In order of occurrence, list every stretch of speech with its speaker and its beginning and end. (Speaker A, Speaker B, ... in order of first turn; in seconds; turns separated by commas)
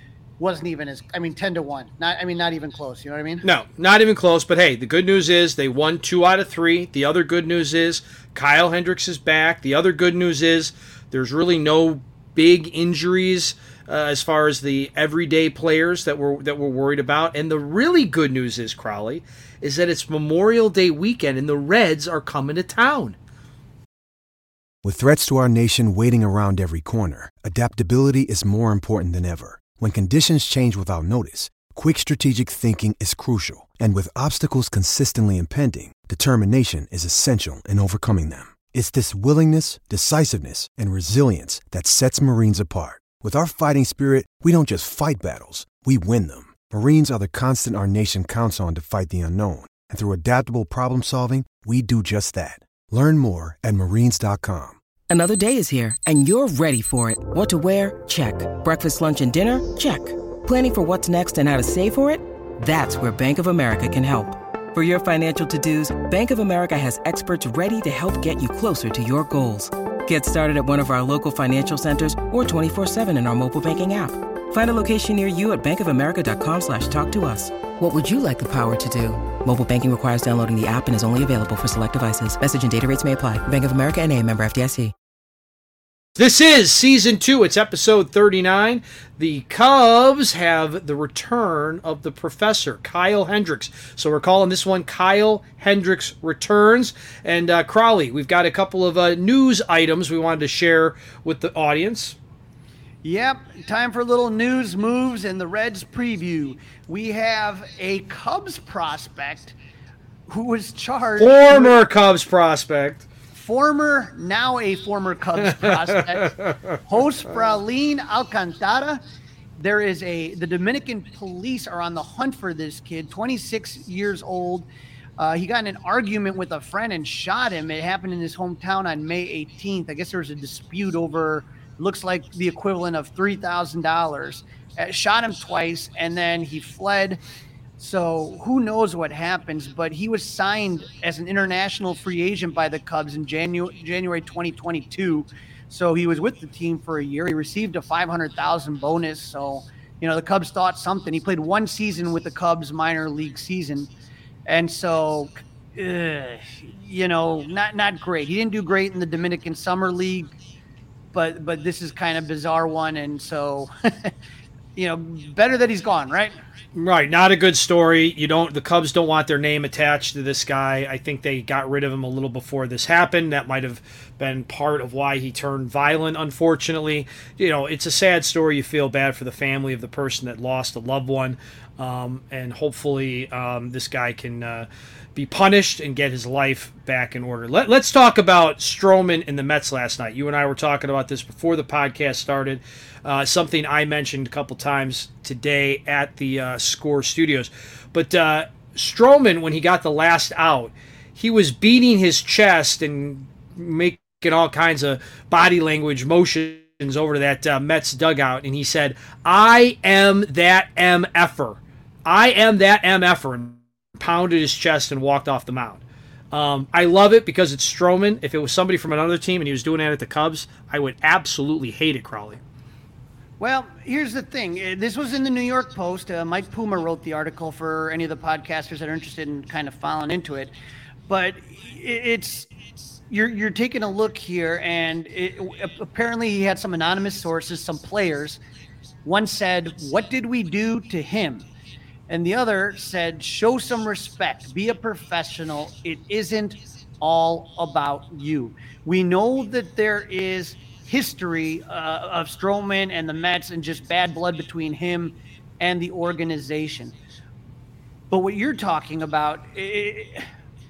Speaker A: 0.4-3.4, Speaker B: 3.4-23.2, Speaker C: 24.8-54.8, Speaker D: 55.1-84.9, Speaker B: 86.2-102.2, Speaker A: 103.0-109.6, Speaker A: 110.3-111.8, Speaker B: 111.2-113.0, Speaker A: 113.3-119.0, Speaker B: 115.6-116.6, Speaker A: 119.6-124.7, Speaker A: 125.2-137.2, Speaker A: 137.8-153.9, Speaker A: 154.5-160.3, Speaker A: 161.1-164.1, Speaker A: 164.8-166.4, Speaker B: 166.8-222.4, Speaker A: 223.4-230.5, Speaker A: 231.1-232.5, Speaker A: 233.1-238.4, Speaker A: 239.1-241.5, Speaker A: 242.1-256.9, Speaker A: 258.1-260.3